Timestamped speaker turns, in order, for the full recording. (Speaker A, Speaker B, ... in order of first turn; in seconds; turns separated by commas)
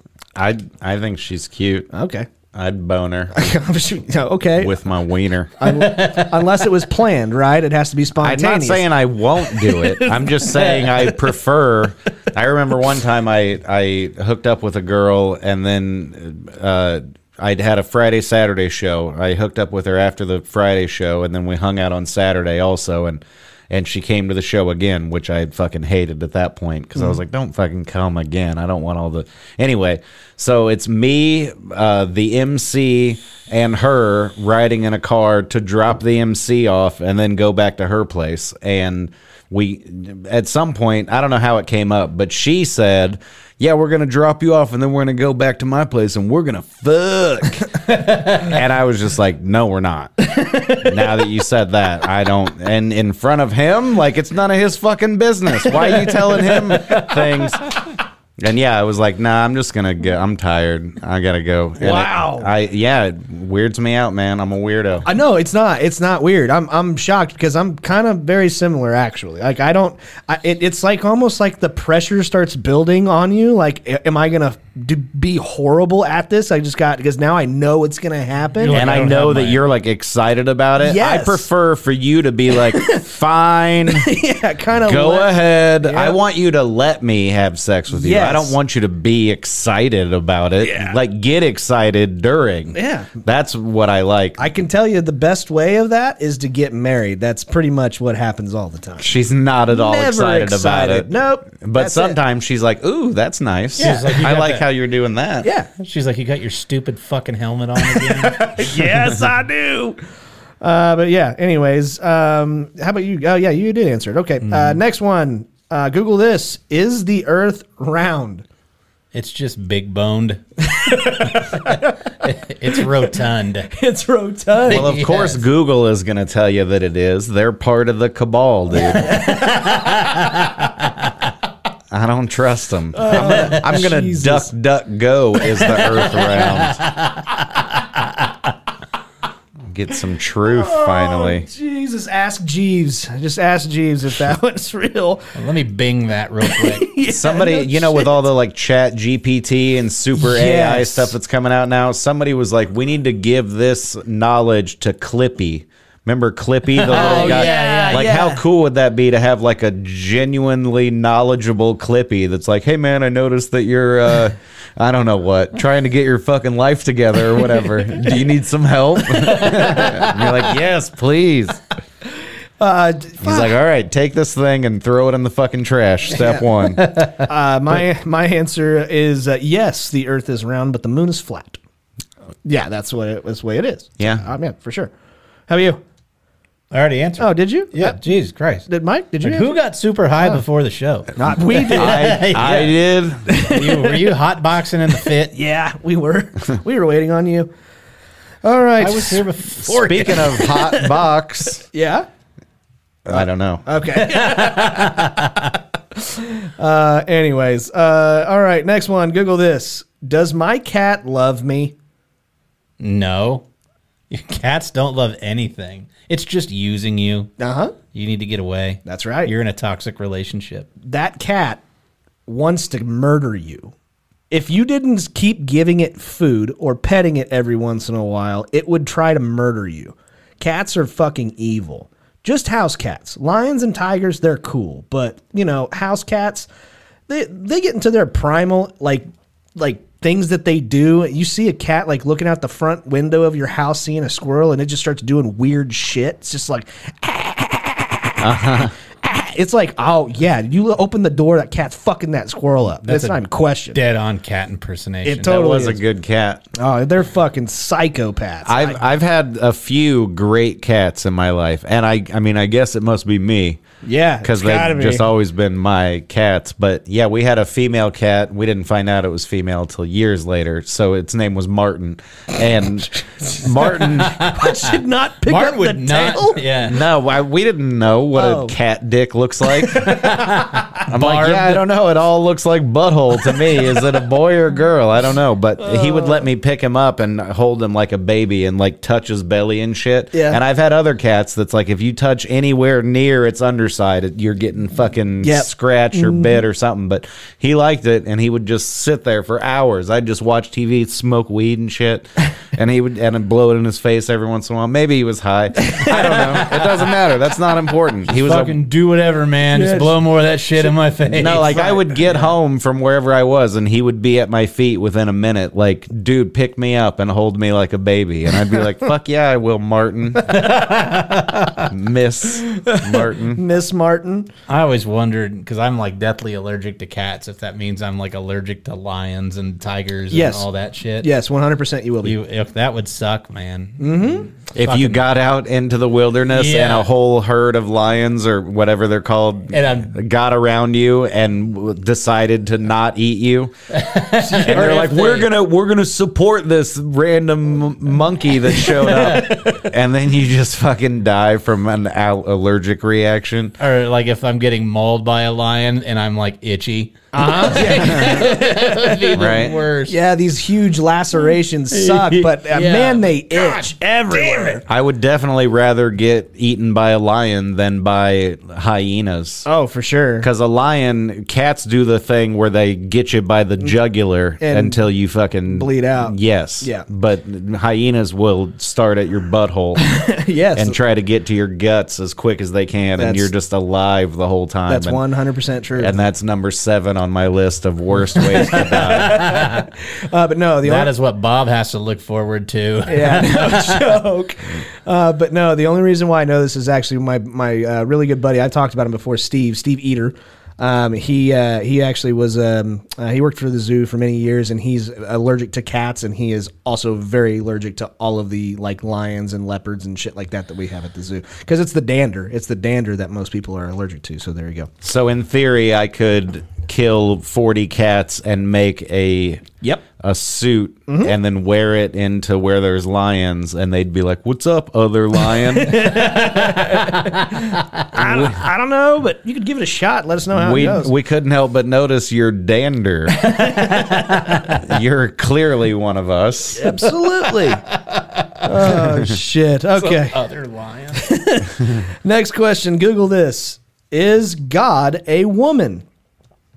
Speaker A: 0.3-1.9, Speaker B: 1.9-2.3, Speaker A: 2.5-3.4, Speaker B: 3.3-4.7, Speaker A: 4.6-5.6, Speaker B: 5.6-8.9, Speaker C: 5.7-6.5, Speaker A: 8.2-57.8, Speaker B: 9.4-11.0, Speaker B: 50.3-51.2, Speaker B: 55.7-57.5, Speaker A: 58.4-65.1, Speaker B: 61.8-62.5, Speaker B: 65.0-78.9, Speaker C: 78.6-79.6, Speaker A: 78.7-84.1, Speaker B: 80.8-81.5, Speaker B: 82.5-83.0, Speaker B: 83.9-86.2, Speaker A: 84.8-94.5, Speaker B: 87.9-88.6, Speaker B: 90.6-91.0, Speaker B: 92.7-93.1, Speaker B: 94.4-99.1, Speaker A: 99.0-101.1, Speaker B: 99.7-102.2, Speaker A: 101.6-105.5, Speaker C: 103.8-104.7, Speaker B: 103.8-104.2, Speaker B: 105.4-105.7, Speaker C: 105.8-108.6, Speaker B: 107.8-110.0, Speaker B: 110.6-118.4, Speaker C: 114.4-114.8, Speaker C: 119.1-123.7, Speaker B: 120.6-122.0, Speaker B: 122.7-123.1, Speaker B: 123.7-124.9, Speaker C: 124.6-125.4, Speaker A: 124.7-129.3, Speaker B: 128.8-129.8, Speaker C: 129.1-131.1, Speaker A: 131.9-136.8, Speaker B: 132.9-134.5, Speaker C: 133.1-133.5, Speaker C: 135.5-138.3, Speaker A: 139.7-141.4, Speaker B: 140.4-145.3, Speaker C: 145.3-146.9, Speaker B: 146.4-148.3, Speaker A: 147.1-171.6, Speaker B: 150.1-151.1, Speaker C: 156.8-158.2, Speaker B: 156.8-158.4, Speaker C: 169.2-170.4, Speaker B: 172.6-173.6, Speaker A: 173.2-176.9, Speaker B: 176.1-176.4, Speaker C: 176.6-177.3, Speaker B: 177.1-181.6, Speaker B: 182.4-184.9, Speaker A: 184.0-184.2, Speaker B: 185.5-185.8, Speaker C: 186.7-188.7, Speaker B: 187.2-188.0, Speaker B: 188.7-189.6, Speaker C: 189.2-192.8, Speaker B: 191.1-192.7, Speaker A: 191.7-193.3, Speaker B: 193.3-194.1, Speaker C: 193.4-195.4, Speaker B: 195.3-197.5, Speaker B: 198.4-199.2, Speaker C: 198.8-200.6, Speaker A: 199.6-201.6, Speaker B: 199.8-201.0, Speaker B: 201.6-202.1, Speaker A: 203.1-203.6, Speaker B: 203.1-205.2, Speaker C: 203.9-205.5, Speaker B: 205.9-211.7, Speaker C: 212.8-213.4, Speaker C: 214.1-217.3, Speaker B: 217.4-217.8, Speaker C: 217.9-220.7, Speaker B: 218.8-219.3, Speaker B: 220.8-221.6, Speaker B: 222.3-223.7, Speaker B: 224.3-236.5, Speaker B: 237.1-239.0, Speaker B: 239.6-253.8, Speaker A: 248.2-248.7, Speaker C: 252.8-253.2, Speaker C: 253.7-255.5, Speaker B: 255.0-255.8, Speaker A: 255.2-256.4, Speaker B: 256.6-258.8, Speaker A: 258.4-263.6, Speaker B: 263.8-265.1, Speaker A: 264.2-274.2, Speaker B: 273.2-276.4, Speaker C: 273.8-276.8, Speaker A: 276.6-280.1, Speaker B: 278.1-278.5, Speaker B: 279.6-280.6, Speaker C: 279.9-281.6, Speaker A: 280.9-308.6, Speaker B: 285.6-286.3, Speaker B: 290.1-290.4, Speaker B: 295.2-296.4, Speaker B: 305.6-306.4, Speaker C: 306.2-306.8, Speaker C: 308.1-312.3, Speaker B: 309.5-310.0, Speaker A: 311.1-320.5, Speaker B: 311.3-311.8, Speaker C: 320.3-321.7, Speaker A: 321.7-323.4, Speaker B: 322.5-324.3, Speaker C: 324.5-331.1, Speaker B: 330.1-330.5, Speaker B: 331.0-332.2, Speaker C: 332.0-335.0, Speaker B: 333.8-334.3, Speaker A: 334.5-343.5, Speaker C: 336.3-336.9, Speaker C: 339.5-339.9, Speaker C: 343.7-345.3, Speaker B: 344.3-344.6, Speaker A: 344.3-353.5, Speaker C: 348.6-349.6, Speaker C: 353.6-360.0, Speaker B: 357.1-364.6, Speaker A: 357.7-358.3, Speaker A: 359.1-359.6, Speaker C: 361.7-364.6, Speaker A: 364.7-369.5, Speaker B: 369.4-370.3, Speaker A: 370.2-379.8, Speaker B: 374.4-374.8, Speaker B: 375.5-376.9, Speaker B: 379.8-380.8, Speaker A: 380.5-385.0, Speaker B: 382.9-383.3, Speaker B: 384.7-386.0, Speaker A: 385.8-389.4, Speaker B: 388.2-390.9, Speaker C: 388.3-389.6, Speaker C: 390.6-394.0, Speaker B: 392.9-414.7, Speaker A: 414.8-426.0, Speaker B: 420.9-421.1, Speaker B: 425.3-430.9, Speaker C: 426.1-427.4, Speaker A: 427.9-428.4, Speaker A: 430.3-433.3, Speaker B: 433.3-434.1, Speaker C: 433.4-434.5, Speaker A: 434.4-436.9, Speaker B: 436.5-437.6, Speaker C: 437.2-438.8, Speaker B: 438.4-440.2, Speaker C: 439.8-441.1, Speaker B: 440.9-445.8